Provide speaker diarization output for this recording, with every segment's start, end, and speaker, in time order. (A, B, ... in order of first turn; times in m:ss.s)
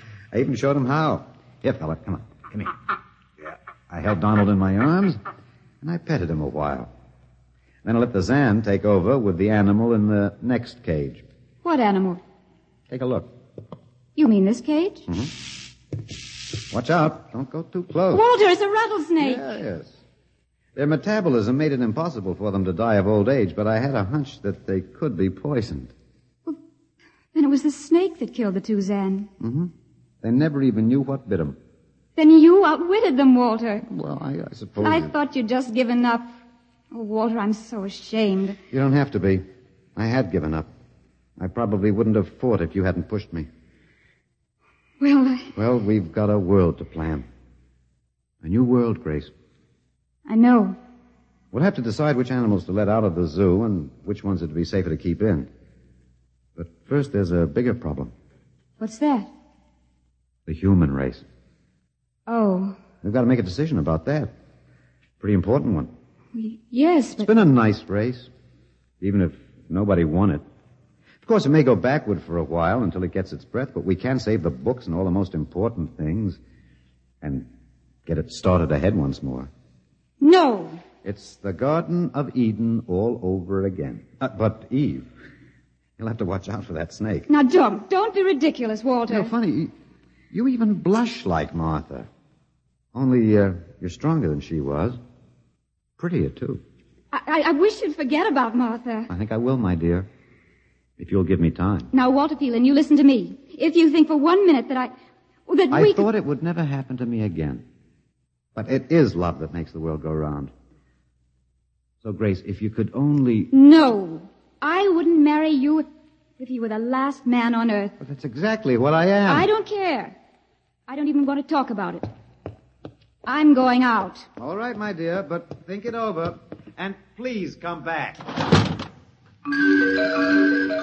0:00.3-0:02.7 A
0:03.4-0:05.2 A
0:05.8-0:06.9 A
0:07.8-0:11.2 A
0:11.6-0:12.2 B
0:12.9-0:13.3 A
0:14.2-0:15.1 B
0:15.1-0:15.3 A
0:16.7-0:18.2 A
0:18.1-0:19.6 B
0:19.2-0:20.0 A
0:20.7-0:25.9 A
0:27.3-0:29.3 B
0:29.4-0:31.6 A
0:32.2-0:33.9 B
0:33.8-0:35.1 A
0:34.8-0:36.4 B
0:36.9-0:38.6 B
0:38.7-0:39.4 A
0:40.0-0:40.7 A
0:41.4-0:43.5 A
0:45.0-0:45.5 B
0:45.6-0:47.3 A
0:48.4-0:49.3 A
0:50.2-0:50.8 B
0:51.5-0:55.5 A
0:56.6-0:58.1 A
0:58.8-0:59.3 B
1:00.5-1:01.2 A
1:02.3-1:02.8 B
1:03.0-1:04.3 A
1:05.2-1:05.9 A
1:06.3-1:07.3 B
1:07.2-1:08.3 A
1:09.0-1:10.4 A
1:11.2-1:16.4 A
1:17.2-1:17.5 A
1:18.0-1:19.5 A
1:20.2-1:20.8 B
1:21.0-1:25.1 A
1:26.0-1:27.3 A
1:27.3-1:29.3 B
1:29.1-1:29.7 A
1:30.3-1:32.1 A
1:32.9-1:35.0 A
1:36.0-1:36.6 A
1:37.1-1:39.1 B
1:39.1-1:40.1 A
1:41.0-1:41.9 A
1:41.9-1:44.9 B
1:45.5-1:46.1 B
1:45.7-1:47.6 A
1:48.5-1:50.5 A
1:52.0-1:53.5 A
1:53.5-1:55.9 B
1:56.4-1:57.9 B
1:58.0-1:59.5 A
1:59.2-2:00.1 B
2:00.9-2:02.1 B
2:03.2-2:04.3 B
2:04.4-2:08.3 A